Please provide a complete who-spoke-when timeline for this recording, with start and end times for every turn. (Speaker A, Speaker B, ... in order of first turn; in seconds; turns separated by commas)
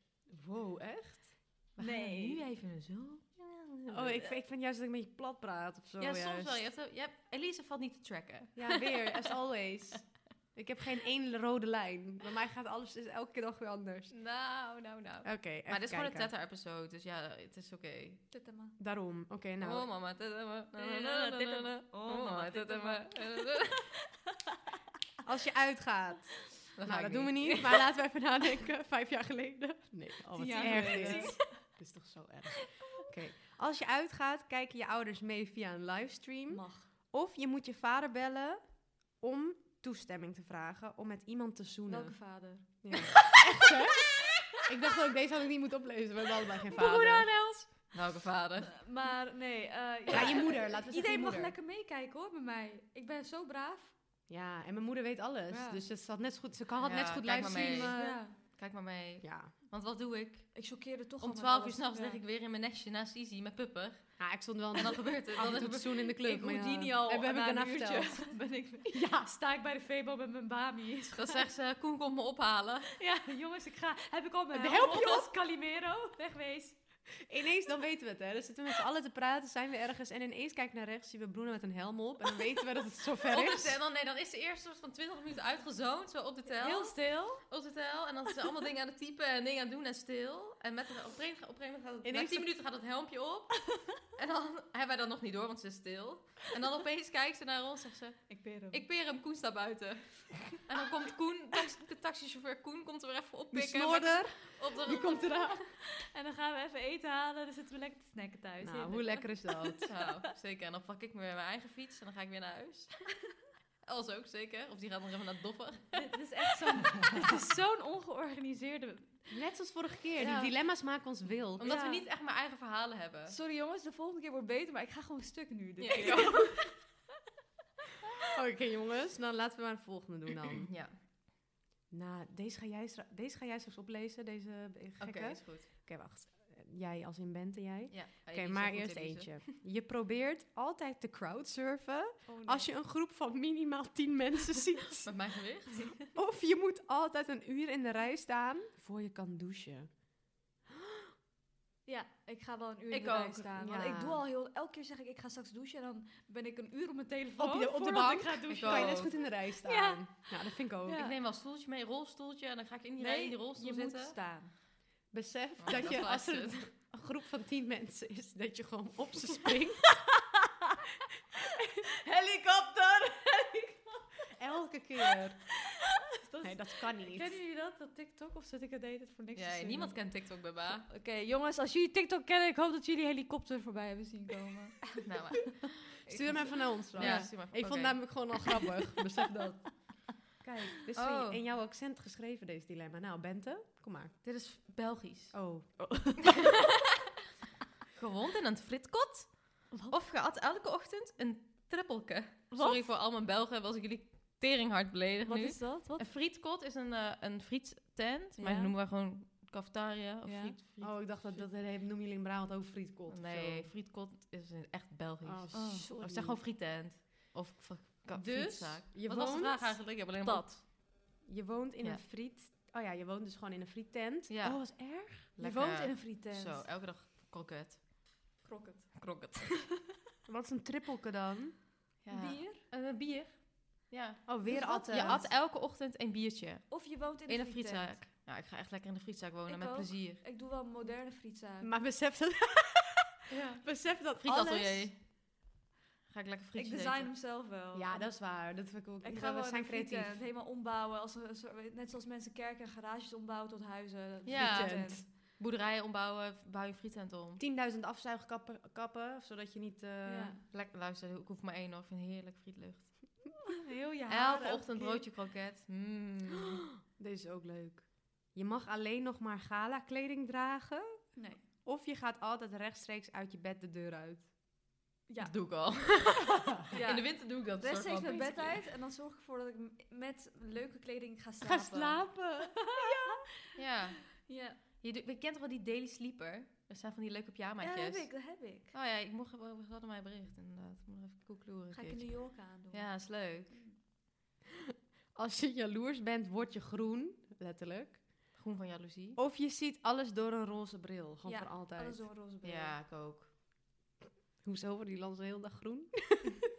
Speaker A: 0.3-1.4, Speaker B: 1.8-4.3, Speaker C: 1.8-2.4, Speaker A: 3.9-6.6, Speaker B: 6.0-9.3, Speaker A: 8.6-14.2, Speaker B: 14.1-18.2, Speaker A: 15.2-16.3, Speaker C: 18.3-18.8, Speaker A: 18.8-19.9, Speaker B: 19.6-23.9, Speaker C: 20.8-24.6, Speaker A: 25.2-38.6, Speaker B: 26.8-27.9, Speaker C: 30.4-31.6, Speaker B: 30.6-31.3, Speaker C: 36.5-36.9, Speaker A: 39.2-47.3, Speaker C: 41.9-43.4, Speaker B: 46.8-48.8, Speaker C: 48.7-53.9, Speaker A: 50.1-51.5, Speaker A: 54.3-58.2, Speaker C: 55.5-55.8, Speaker B: 56.8-66.1, Speaker C: 57.7-58.4, Speaker A: 59.2-59.5, Speaker C: 60.5-62.2, Speaker A: 64.2-68.3, Speaker C: 66.2-71.4, Speaker A: 68.9-69.3, Speaker B: 71.1-72.9, Speaker C: 73.0-76.8, Speaker A: 74.5-75.3, Speaker A: 77.2-83.8, Speaker B: 83.2-105.4, Speaker C: 86.6-87.4, Speaker A: 92.0-92.5, Speaker C: 98.3-98.8, Speaker A: 103.5-105.6, Speaker C: 105.7-110.1, Speaker A: 108.6-109.8, Speaker B: 109.9-112.9, Speaker B: 113.8-116.0, Speaker C: 115.9-119.3, Speaker A: 119.3-121.8, Speaker B: 120.2-120.5, Speaker B: 121.6-123.3, Speaker C: 121.6-122.0, Speaker C: 123.3-126.8, Speaker B: 125.8-126.6, Speaker A: 128.3-130.7, Speaker B: 130.7-131.0, Speaker A: 131.9-145.1, Speaker B: 135.0-135.7, Speaker B: 137.9-139.6, Speaker C: 142.3-142.7, Speaker B: 145.1-146.0, Speaker A: 146.1-149.9, Speaker C: 151.9-160.3, Speaker B: 152.9-153.5, Speaker A: 153.6-154.2, Speaker A: 157.4-161.0, Speaker B: 158.5-159.1, Speaker C: 160.8-161.1, Speaker B: 160.9-164.2, Speaker C: 163.0-164.6, Speaker A: 165.1-169.9, Speaker B: 165.6-166.6, Speaker C: 170.3-170.7, Speaker C: 172.1-174.0, Speaker A: 174.3-175.4, Speaker C: 175.7-180.0, Speaker A: 176.4-177.4, Speaker B: 179.4-180.9, Speaker C: 180.9-184.9, Speaker B: 185.0-188.2, Speaker A: 186.1-189.9, Speaker C: 187.0-187.3, Speaker A: 190.4-194.1, Speaker B: 190.9-191.4, Speaker B: 194.2-195.4, Speaker A: 195.3-195.8, Speaker C: 195.8-196.5, Speaker B: 197.9-211.3, Speaker C: 199.7-200.0, Speaker C: 202.5-202.9, Speaker C: 205.2-206.0, Speaker C: 208.4-208.7, Speaker C: 210.2-210.6, Speaker A: 210.8-213.7, Speaker B: 213.1-220.6, Speaker A: 215.2-216.4, Speaker C: 215.5-215.9, Speaker A: 218.1-219.8, Speaker C: 220.2-220.5, Speaker A: 221.2-225.3, Speaker B: 224.3-228.2, Speaker C: 225.4-226.7, Speaker C: 228.4-229.1, Speaker B: 228.9-229.7, Speaker A: 230.3-231.6, Speaker B: 232.1-240.2, Speaker C: 232.1-232.6, Speaker A: 234.3-235.3, Speaker C: 234.4-235.2, Speaker C: 236.7-238.1, Speaker C: 239.5-241.7, Speaker A: 241.6-243.1, Speaker C: 243.3-243.6, Speaker A: 243.6-244.9, Speaker B: 244.2-245.0, Speaker B: 246.1-247.1, Speaker C: 246.6-248.1, Speaker A: 247.7-250.2, Speaker C: 249.0-255.0, Speaker B: 254.3-257.4, Speaker A: 254.3-255.1, Speaker A: 257.4-260.4, Speaker C: 260.1-260.4, Speaker B: 260.5-263.3, Speaker C: 263.6-265.0, Speaker B: 264.1-266.6, Speaker A: 267.0-271.1, Speaker C: 271.1-271.4, Speaker A: 271.6-274.3, Speaker C: 275.1-275.9, Speaker B: 275.2-278.6, Speaker C: 276.6-283.6, Speaker A: 281.4-283.2, Speaker B: 283.6-293.6, Speaker C: 284.2-284.6, Speaker C: 287.6-288.7, Speaker C: 291.7-293.8, Speaker A: 295.1-298.1, Speaker B: 298.4-299.2, Speaker A: 299.2-302.1, Speaker C: 301.2-302.8, Speaker B: 302.4-303.3, Speaker A: 304.4-306.4